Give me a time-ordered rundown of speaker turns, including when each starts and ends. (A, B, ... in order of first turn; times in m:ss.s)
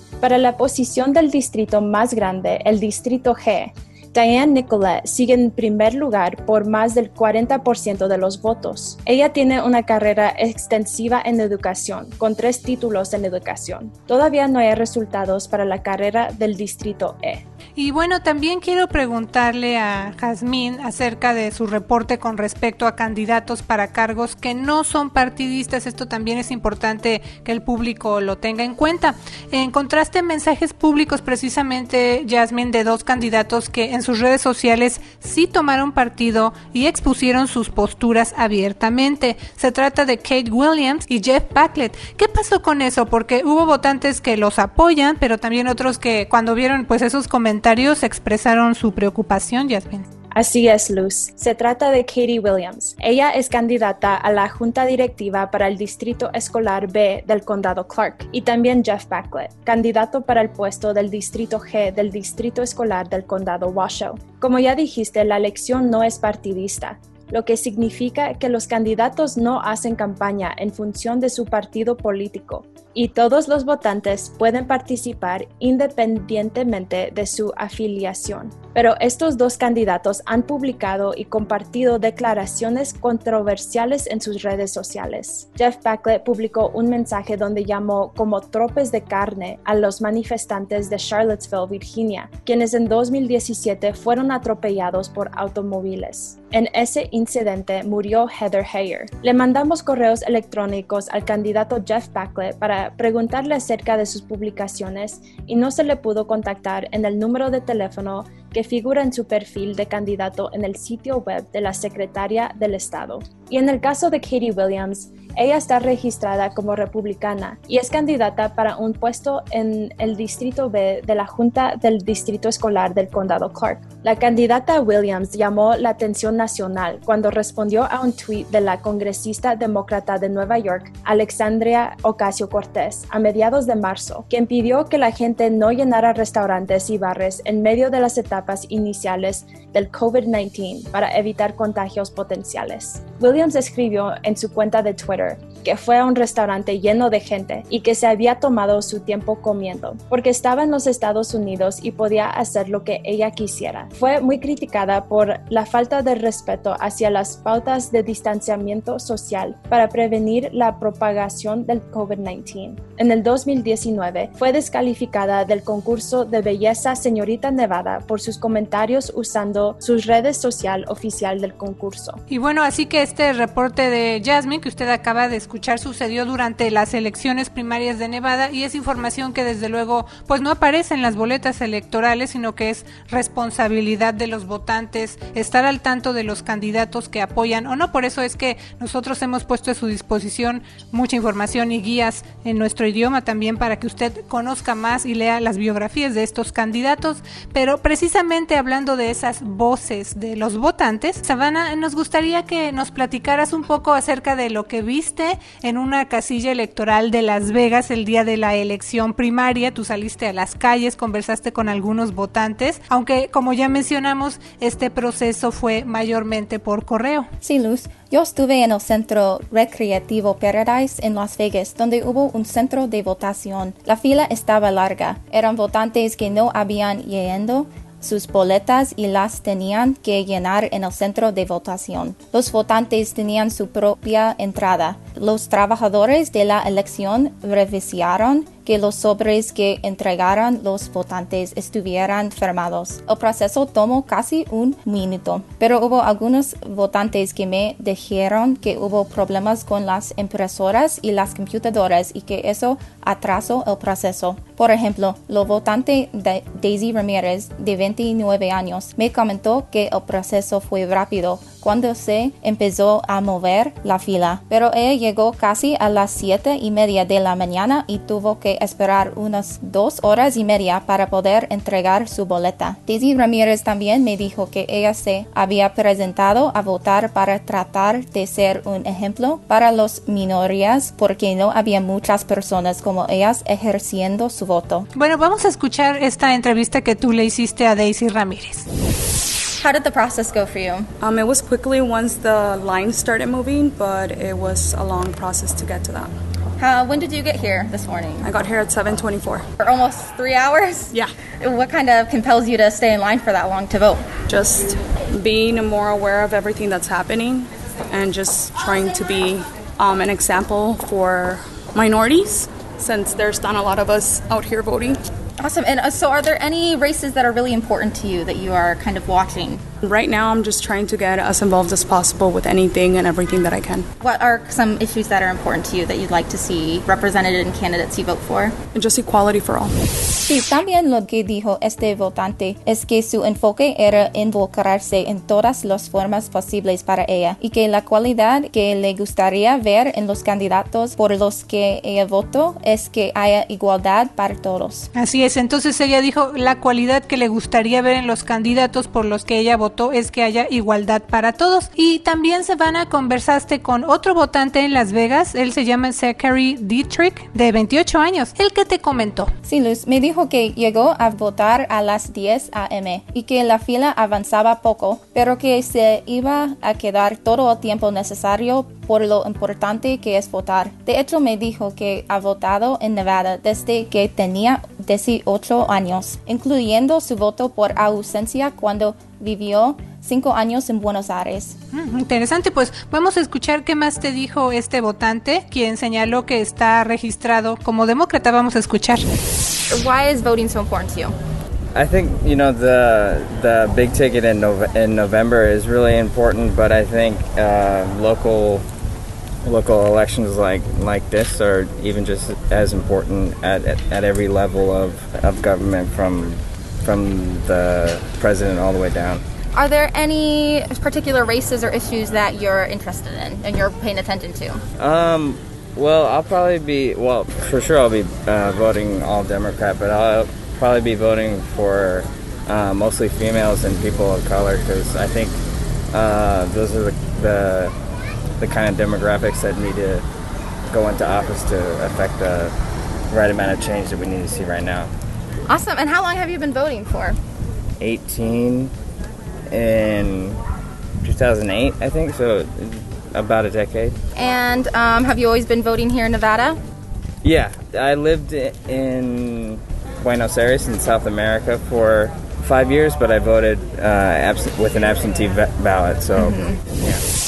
0:00.2-0:17.4 A
0:17.8-0:50.0 B
0:50.3-2:52.2 A
2:52.3-3:37.3 B
3:37.4-4:44.8 C
4:44.9-4:48.7 B
4:49.6-4:50.9 C
4:51.0-4:56.1 D
4:56.6-4:58.3 C
4:58.2-4:59.4 D
4:59.6-5:04.0 C
5:04.3-5:15.0 D
5:15.4-5:19.6 C
5:19.8-5:23.9 D
5:24.0-5:28.5 C
5:28.7-5:29.7 D
5:30.2-5:44.9 C
5:44.9-5:59.3 B
5:59.4-6:21.6 C
6:21.7-6:29.1 B
6:29.7-6:31.1 C
6:31.7-6:38.6 E
6:39.4-6:49.2 E
6:49.5-6:54.6 C
6:54.8-7:05.4 E
7:05.9-7:07.7 E
7:08.4-7:10.0 E
7:10.7-7:12.5 E
7:13.1-7:14.9 E
7:15.5-7:17.2 C
7:17.8-7:18.7 E
7:19.5-7:20.4 E
7:21.0-7:24.0 E
7:24.1-7:26.6 C
7:27.2-7:37.0 E
7:36.2-7:36.5 C